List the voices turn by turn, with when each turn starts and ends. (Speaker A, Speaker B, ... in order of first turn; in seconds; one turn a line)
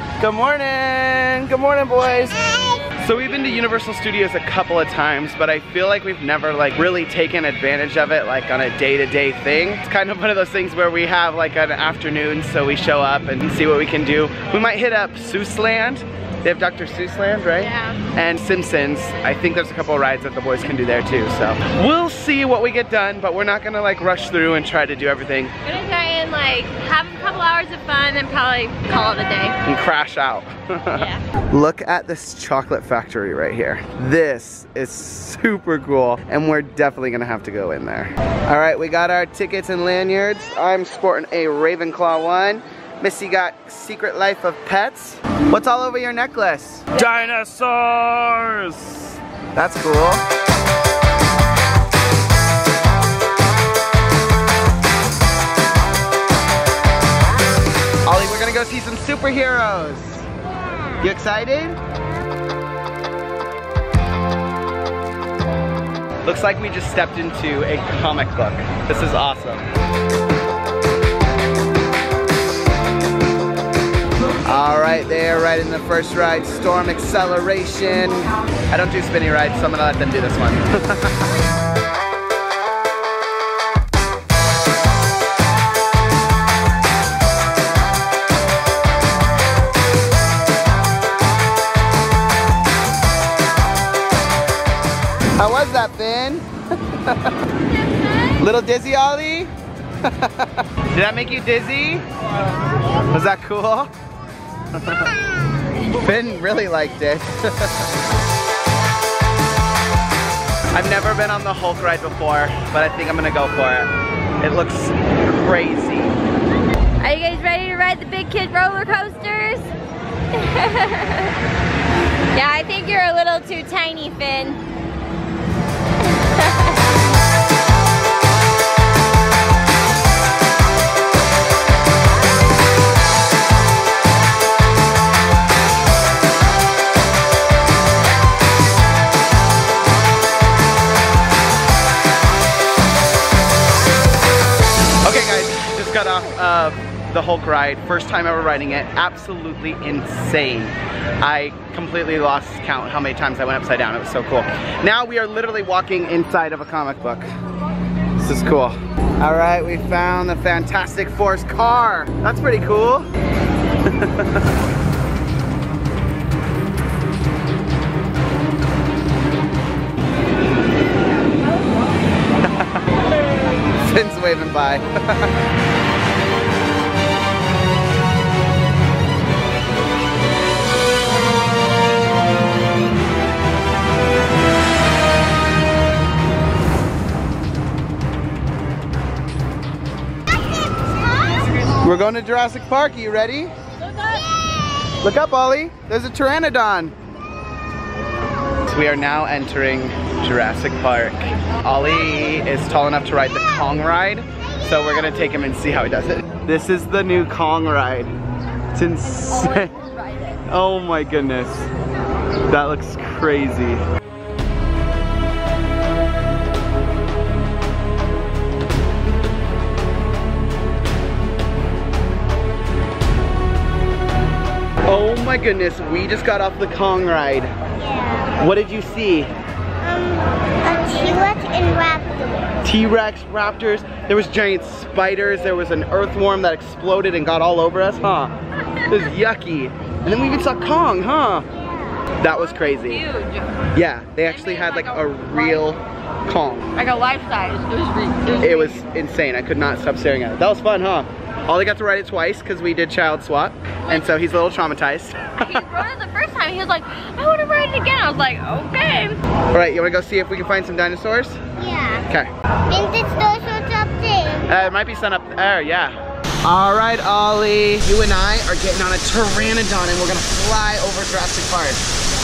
Speaker A: 0.2-2.4
Speaker B: 2.4-2.9
Speaker A: 3.0-25.5
Speaker C: 17.6-18.0
Speaker C: 25.6-29.6
Speaker A: 29.6-50.2
Speaker C: 30.9-31.2
Speaker A: 58.0-60.3
Speaker A: 61.0-61.8
Speaker A: 66.3-69.7
Speaker A: 74.5-81.3
Speaker A: 95.4-97.4
Speaker A: 98.4-99.5
Speaker A: 100.0-102.0
Speaker A: 103.1-103.9
Speaker A: 104.8-105.2
Speaker A: 105.7-107.9
Speaker A: 110.7-116.2
Speaker C: 117.0-119.7
Speaker C: 120.3-121.4
Speaker C: 122.3-124.6
Speaker C: 126.1-126.8
Speaker A: 145.0-157.3
Speaker A: 158.2-163.1
Speaker A: 163.8-164.5
Speaker A: 172.6-172.9
Speaker A: 173.6-175.3
Speaker B: 190.6-191.5
Speaker A: 191.7-193.5
Speaker B: 194.4-194.9
Speaker A: 195.0-196.9
Speaker A: 198.7-208.1
Speaker A: 208.7-209.7
Speaker A: 210.4-211.7
Speaker A: 212.5-213.8
Speaker A: 224.9-227.5
Speaker B: 227.8-228.3
Speaker A: 228.3-229.3
Speaker B: 229.8-232.5
Speaker A: 232.6-238.3
Speaker A: 238.9-241.5
Speaker A: 242.2-243.0
Speaker C: 242.5-243.7
Speaker A: 243.7-246.8
Speaker C: 244.3-245.6
Speaker C: 246.8-248.8
Speaker A: 248.4-255.8
Speaker C: 253.9-254.2
Speaker C: 255.4-259.2
Speaker A: 259.5-261.4
Speaker B: 261.6-262.1
Speaker B: 262.7-264.6
Speaker A: 264.5-271.9